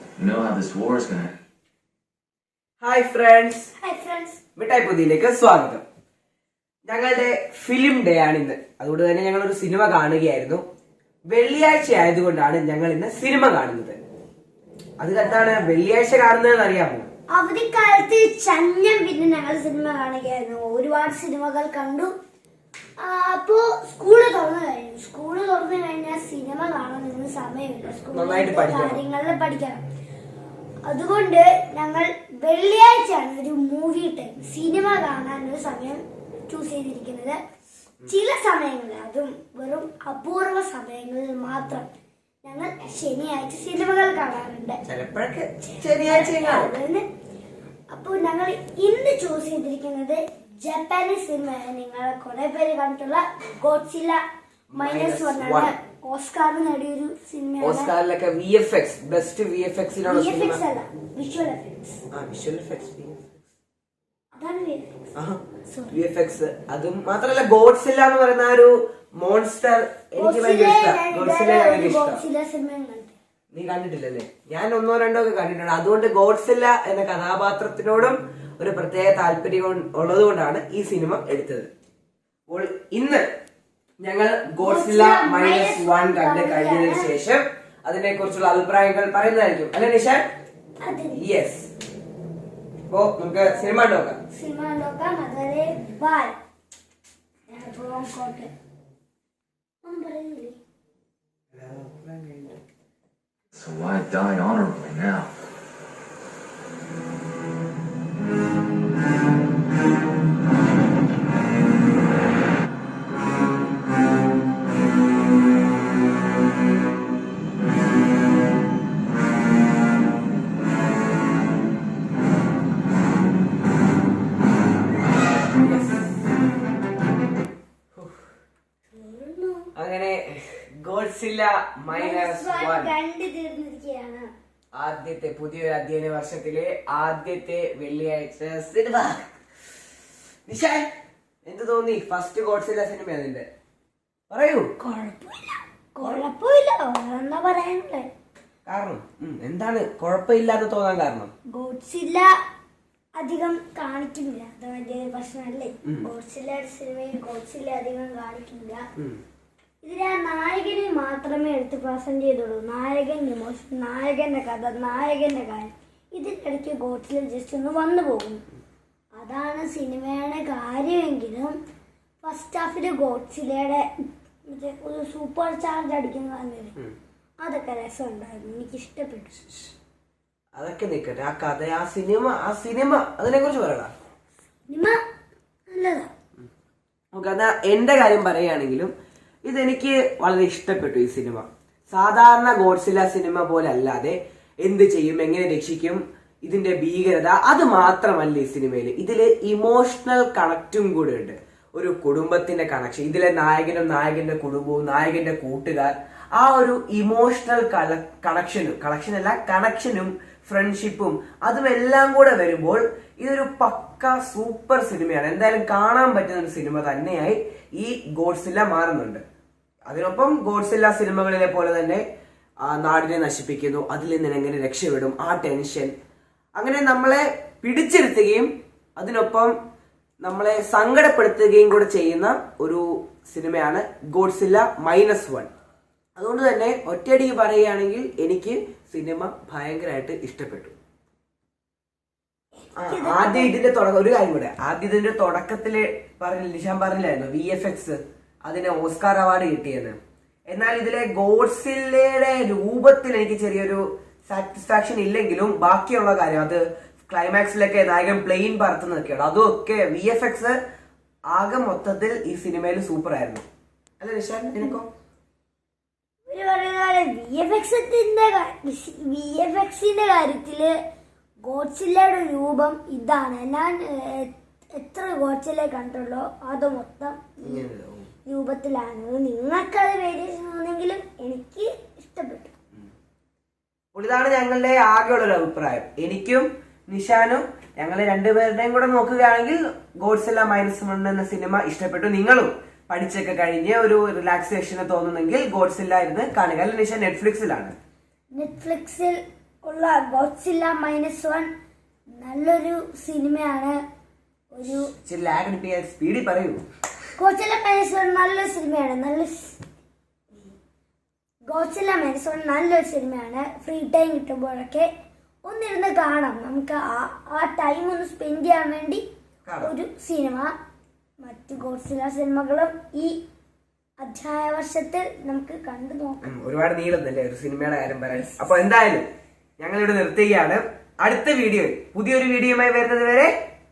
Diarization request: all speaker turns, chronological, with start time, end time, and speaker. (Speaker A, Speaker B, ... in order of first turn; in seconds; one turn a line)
Speaker A: 0.2-1.3
Speaker B: 2.8-3.7
Speaker C: 3.8-4.4
Speaker B: 4.5-5.8
Speaker B: 6.9-10.6
Speaker B: 11.3-14.0
Speaker B: 15.0-17.1
Speaker C: 17.3-22.1
Speaker C: 23.0-29.8
Speaker B: 28.1-29.0
Speaker C: 30.8-37.4
Speaker C: 38.0-44.8
Speaker B: 44.9-46.7
Speaker C: 45.7-47.0
Speaker C: 47.9-54.2
Speaker B: 54.7-55.7
Speaker C: 54.7-57.9
Speaker B: 57.6-60.6
Speaker C: 60.0-62.0
Speaker B: 62.1-63.4
Speaker C: 64.3-65.1
Speaker B: 65.2-65.4
Speaker C: 65.7-66.0
Speaker B: 65.9-72.2
Speaker C: 70.2-73.2
Speaker B: 73.5-81.7
Speaker B: 82.5-83.2
Speaker B: 84.0-90.2
Speaker C: 84.6-87.1
Speaker C: 90.8-91.2
Speaker B: 91.2-91.7
Speaker B: 92.9-94.2
Speaker C: 94.3-96.3
Speaker C: 97.5-98.5
Speaker C: 99.8-100.6
Speaker B: 101.5-102.5
Speaker A: 103.5-105.3
Speaker B: 125.5-126.1
Speaker C: 128.9-129.7
Speaker B: 129.8-132.9
Speaker C: 131.9-134.3
Speaker B: 134.7-139.3
Speaker B: 140.5-140.8
Speaker B: 141.4-143.5
Speaker B: 144.3-144.7
Speaker C: 144.8-148.1
Speaker B: 148.7-151.3
Speaker C: 151.5-152.3
Speaker C: 153.2-158.8
Speaker C: 159.8-168.4
Speaker C: 169.1-171.6
Speaker C: 172.2-176.8
Speaker C: 177.4-179.3
Speaker B: 180.5-183.9
Speaker C: 184.7-185.0
Speaker C: 185.7-186.1
Speaker B: 187.1-188.9
Speaker B: 189.4-219.2
Speaker B: 219.9-222.0
Speaker B: 222.6-225.9
Speaker B: 226.6-229.5
Speaker B: 230.2-235.5
Speaker B: 236.2-240.7
Speaker C: 242.6-243.6
Speaker B: 242.8-250.0
Speaker B: 250.5-260.6
Speaker B: 261.3-263.4
Speaker B: 264.0-264.9
Speaker C: 266.2-270.7
Speaker C: 271.4-277.6
Speaker B: 277.4-278.1
Speaker C: 278.2-282.5
Speaker B: 283.9-297.7
Speaker C: 298.3-301.5
Speaker C: 302.1-303.8
Speaker C: 304.5-304.9
Speaker B: 305.0-306.6
Speaker C: 307.2-309.6
Speaker C: 311.5-314.9
Speaker C: 315.4-319.0
Speaker B: 319.4-319.7
Speaker C: 319.6-320.5
Speaker C: 321.2-323.2
Speaker C: 324.0-326.3
Speaker B: 326.2-329.1
Speaker B: 329.6-333.3